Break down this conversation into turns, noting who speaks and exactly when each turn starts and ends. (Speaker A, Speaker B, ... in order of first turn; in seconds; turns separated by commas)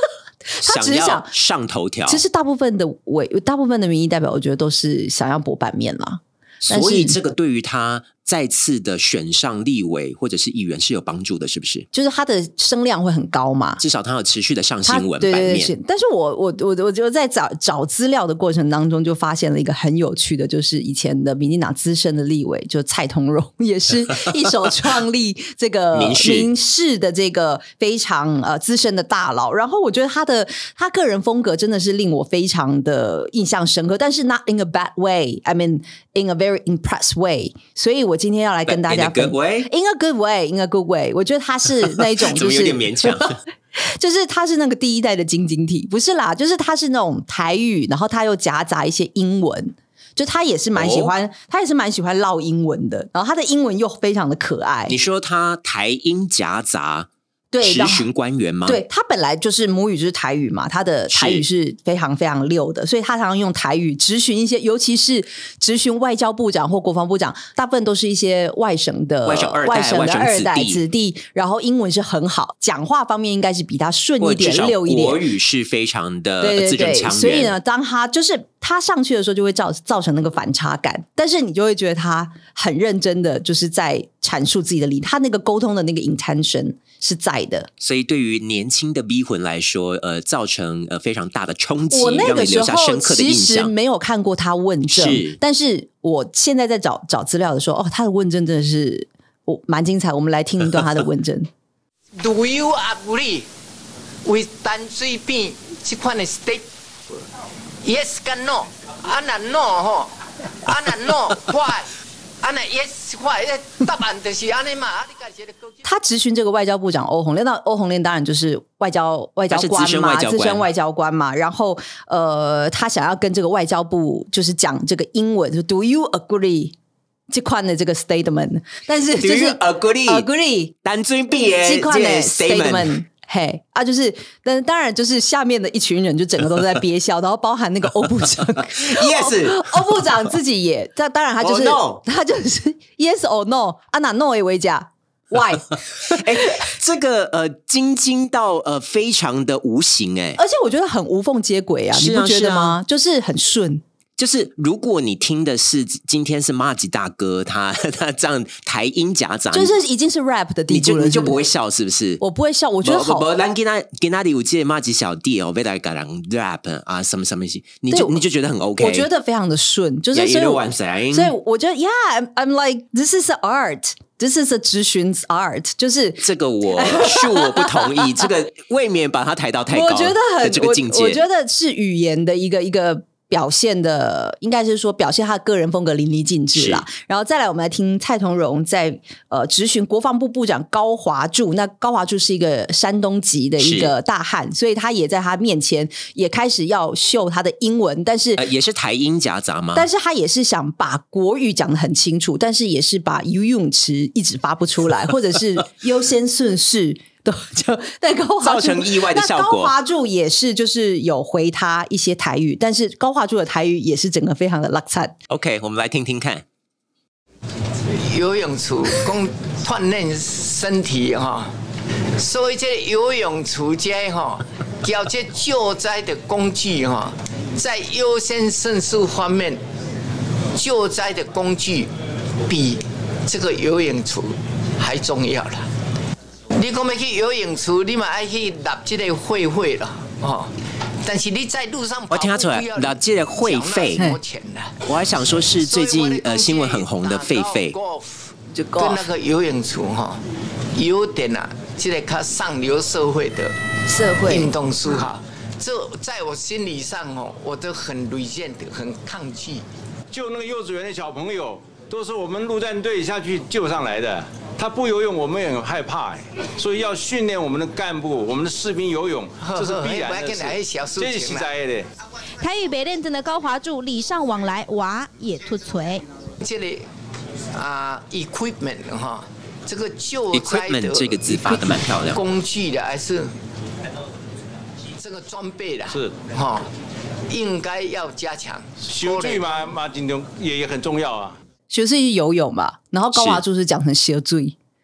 Speaker A: 0.6-1.3, Speaker B: 0.6-2.2, Speaker A: 2.0-7.2, Speaker B: 6.6-11.8, Speaker A: 11.9-13.8, Speaker B: 13.8-15.7, Speaker A: 14.8-55.0, Speaker B: 25.9-26.5, Speaker B: 38.6-39.7, Speaker B: 41.9-43.4, Speaker B: 50.7-51.1, Speaker B: 54.9-57.1, Speaker A: 57.5-58.1, Speaker B: 57.6-58.8, Speaker A: 58.6-75.2, Speaker B: 61.1-61.4, Speaker B: 69.2-70.8, Speaker B: 74.2-77.5, Speaker A: 76.4-87.7, Speaker B: 87.8-93.7, Speaker A: 91.9-101.5, Speaker B: 94.9-95.4, Speaker C: 102.2-103.5, Speaker C: 104.2-106.6, Speaker C: 107.8-115.8, Speaker A: 115.8-126.7, Speaker B: 119.5-120.7, Speaker A: 127.3-130.7, Speaker B: 129.2-130.3, Speaker B: 130.8-132.9, Speaker A: 131.6-146.2, Speaker B: 138.7-139.9, Speaker B: 141.4-142.0, Speaker B: 146.1-150.4, Speaker A: 150.4-153.8, Speaker B: 151.9-152.8, Speaker B: 154.2-159.7, Speaker A: 159.5-161.4, Speaker B: 160.7-162.2, Speaker A: 162.2-163.3, Speaker B: 162.8-169.1, Speaker A: 167.9-168.2, Speaker A: 168.8-176.2, Speaker B: 170.1-171.3, Speaker B: 176.2-181.2, Speaker A: 176.8-178.1, Speaker A: 179.7-198.4, Speaker B: 186.5-186.8, Speaker B: 193.6-193.9, Speaker B: 198.3-199.9, Speaker A: 199.7-215.1, Speaker B: 208.4-209.7, Speaker B: 215.3-216.4, Speaker C: 217.9-221.5, Speaker C: 222.2-229.6, Speaker C: 230.5-231.9, Speaker C: 232.5-235.7, Speaker C: 236.5-244.8, Speaker B: 242.1-244.0, Speaker B: 244.8-247.8, Speaker C: 245.6-250.2, Speaker A: 248.5-249.0, Speaker C: 250.7-253.5, Speaker A: 253.9-254.5, Speaker C: 254.2-259.6, Speaker D: 254.9-255.2, Speaker D: 260.1-271.9, Speaker C: 269.4-271.5, Speaker E: 272.4-276.0, Speaker C: 276.4-276.9, Speaker C: 277.5-283.3, Speaker B: 280.3-282.2, Speaker C: 285.0-286.7, Speaker D: 285.9-286.2, Speaker C: 287.3-289.5, Speaker D: 288.8-291.4, Speaker A: 291.7-294.6, Speaker B: 293.1-293.4